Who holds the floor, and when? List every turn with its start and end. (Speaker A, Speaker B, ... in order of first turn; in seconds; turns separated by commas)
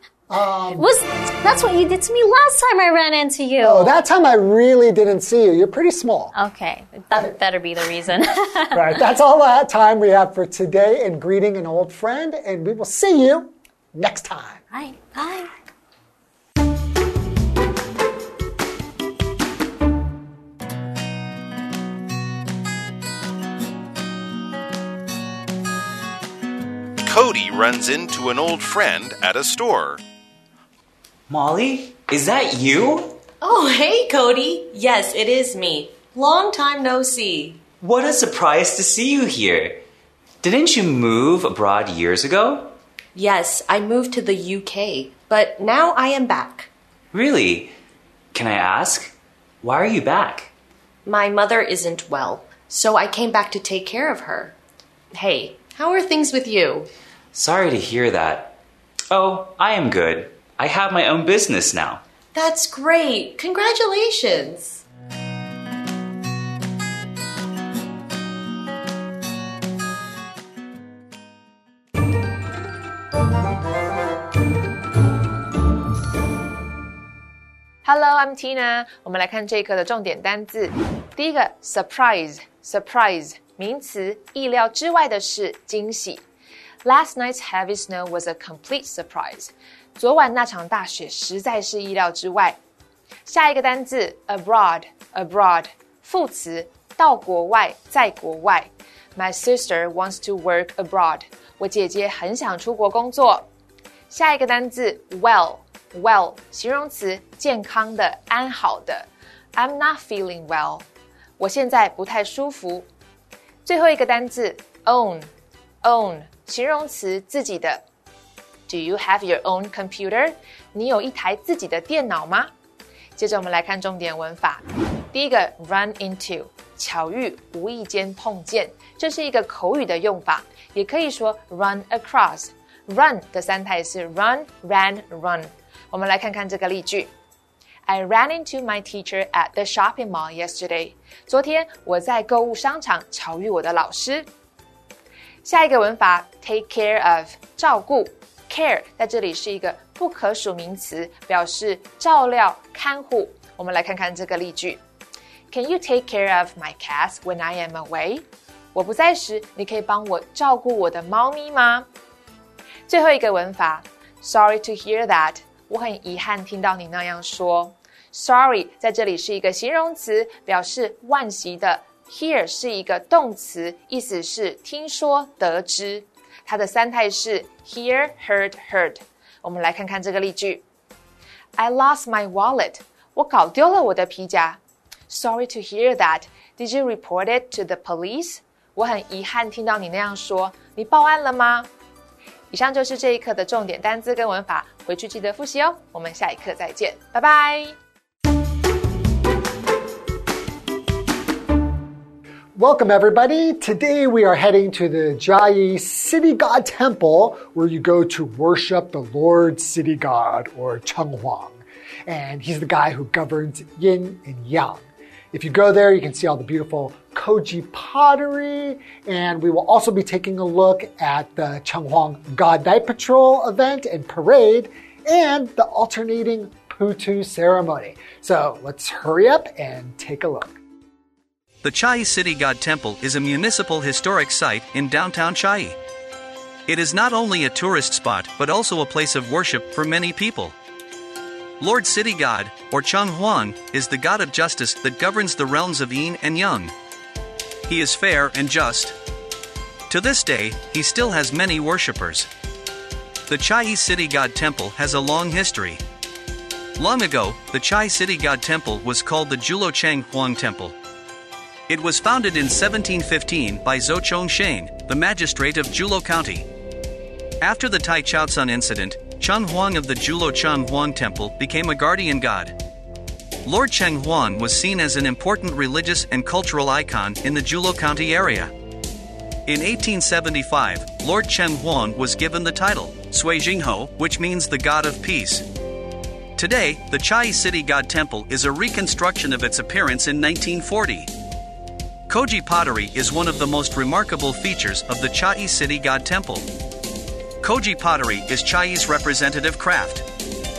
Speaker A: 0.3-0.9, Speaker B: 0.8-4.0, Speaker A: 3.6-6.3, Speaker B: 6.3-9.0, Speaker A: 8.7-14.6, Speaker B: 14.7-15.6, Speaker C: 27.0-30.0, Speaker D: 31.3-33.2, Speaker E: 33.4-37.6, Speaker D: 37.8-39.8, Speaker D: 40.4-42.7, Speaker E: 43.1-46.7, Speaker D: 47.1-47.7, Speaker D: 48.3-50.5, Speaker E: 51.0-54.6, Speaker E: 55.1-56.9, Speaker D: 57.3-58.6, Speaker D: 59.1-62.0, Speaker E: 62.3-64.8, Speaker F: 77.8-86.2, Speaker F: 86.8-92.6, Speaker F: 93.2-103.5, Speaker F: 104.1-110.9, Speaker F: 111.4-112.9, Speaker F: 113.6-115.3, Speaker F: 115.8-117.8, Speaker F: 118.7-122.5, Speaker F: 123.2-137.1, Speaker F: 137.9-144.3, Speaker F: 145.4-154.8, Speaker F: 155.5-161.9, Speaker F: 162.9-180.6, Speaker F: 181.6-191.7, Speaker F: 192.5-197.8, Speaker A: 202.6-230.6, Speaker G: 231.6-235.8, Speaker G: 236.7-240.6, Speaker G: 241.6-246.7, Speaker G: 247.7-249.0, Speaker G: 249.9-252.3, Speaker G: 253.3-255.8, Speaker G: 256.8-260.8, Speaker G: 261.7-266.5, Speaker G: 267.4-272.6, Speaker G: 273.4-278.5, Speaker G: 279.5-285.4, Speaker G: 286.4-291.1, Speaker G: 292.1-296.5, Speaker G: 297.4-300.1